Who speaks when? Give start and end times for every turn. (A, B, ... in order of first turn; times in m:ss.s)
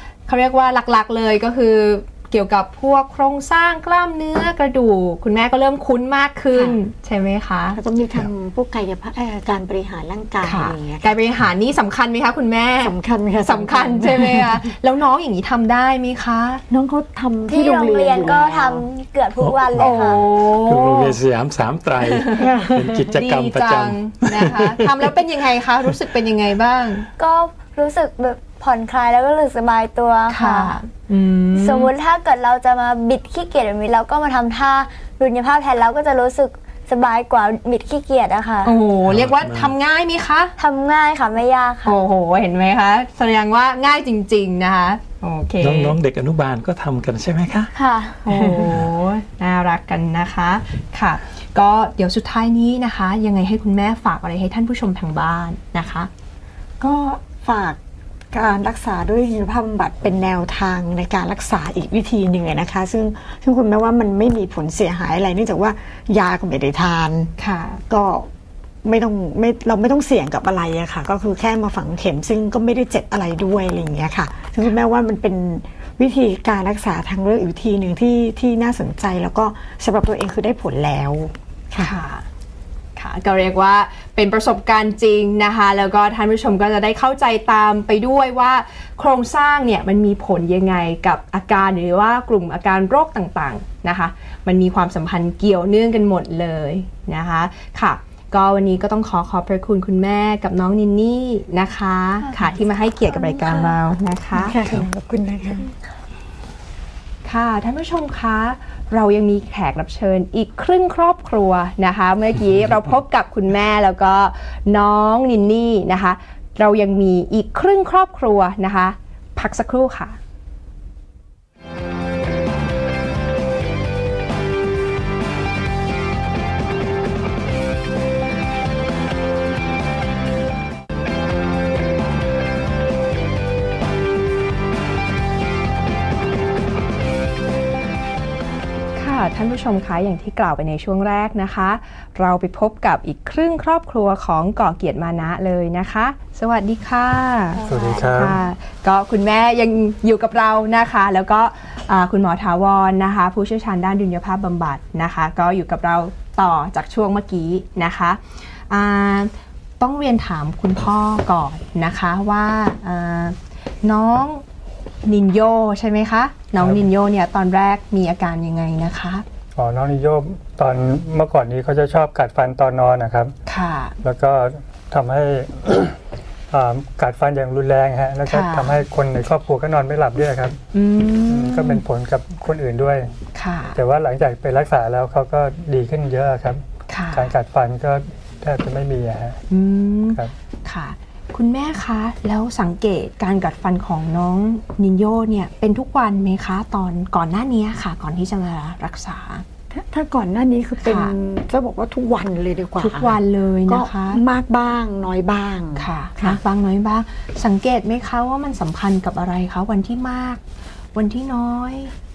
0:00.3-0:07.8 A
0:07.7-0:11.1 B
0:10.4-0:16.6 A
0:12.8-0:14.6 B
0:16.7-0:18.9 B
0:17.5-0:20.2 C
0:19.4-0:25.1 D
0:19.8-0:21.2 A
0:22.0-0:22.5 A
0:22.4-0:22.9 B
0:23.1-0:27.1 A
0:27.2-0:30.8 C
0:30.3-0:31.9 A
0:31.6-0:38.8 C
0:38.6-0:40.6 A
0:39.1-0:39.8 D
0:40.6-0:42.0 C
0:41.8-0:46.0 A
0:45.6-0:47.7 D
0:47.8-0:48.6 C
0:48.2-0:56.1 A
0:56.8-0:57.8 B
0:58.3-1:07.3 B
1:07.4-1:07.8 A
1:07.9-1:08.3 B
1:08.8-1:21.9 B
1:21.8-1:22.3 A
1:23.0-1:44.6 A
1:42.3-1:43.8 C
1:44.4-1:45.7 B
1:47.2-2:00.2 A
2:19.0-2:44.4 A
2:27.6-2:28.4 C
2:27.7-2:28.4 E
2:45.0-2:49.2 A
2:46.6-2:46.8 E
2:49.6-2:53.3 E
2:53.5-2:54.0 A
2:54.0-2:56.0 E
2:56.5-3:00.6 E
2:58.2-2:58.8 A
3:00.7-3:01.8 A
3:01.3-3:03.1 E
3:03.3-3:03.8 A
3:03.7-3:09.4 E
3:06.9-3:07.3 A
3:09.5-3:19.4 A
3:19.7-3:26.4 B
3:20.8-3:21.1 A
3:22.8-3:24.2 A
3:25.8-3:30.4 A
3:30.9-3:31.9 A